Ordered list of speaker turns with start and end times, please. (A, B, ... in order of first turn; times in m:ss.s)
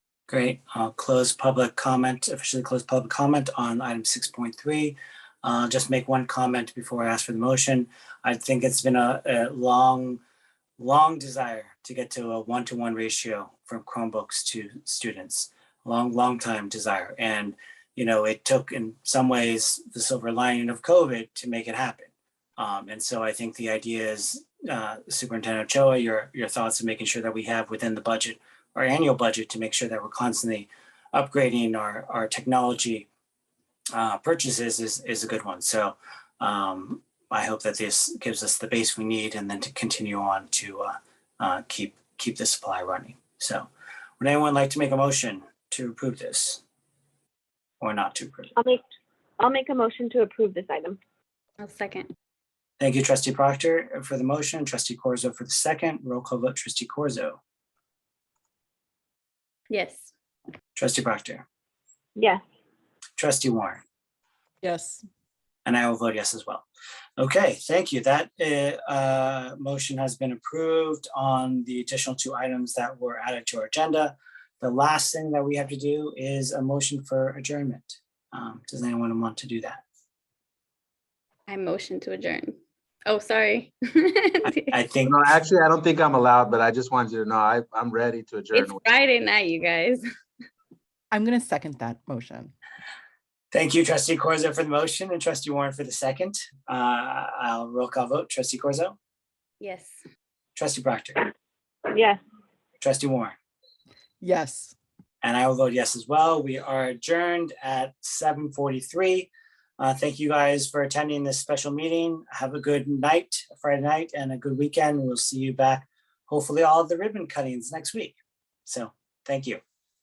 0:00.3-0:10.2 A
0:10.8-0:33.1 A
0:33.9-0:43.7 A
0:44.2-0:46.6 A
0:47.8-0:48.5 A
0:48.6-0:48.8 B
0:49.4-0:51.0 B
0:51.6-0:52.1 C
0:52.8-0:57.4 A
0:59.7-1:00.1 C
1:00.7-1:01.4 A
1:02.2-1:02.4 B
1:03.2-1:03.8 A
1:04.6-1:05.0 D
1:05.6-1:06.6 A
1:07.2-1:19.8 A
1:21.5-1:24.7 C
1:24.7-1:25.2 A
1:25.0-1:28.8 E
1:28.5-1:30.0 C
1:31.1-1:32.5 D
1:33.5-1:39.0 A
1:39.6-1:40.0 C
1:40.6-1:41.3 A
1:41.9-1:42.2 B
1:42.8-1:43.4 A
1:44.2-1:44.7 D
1:45.2-1:59.6 A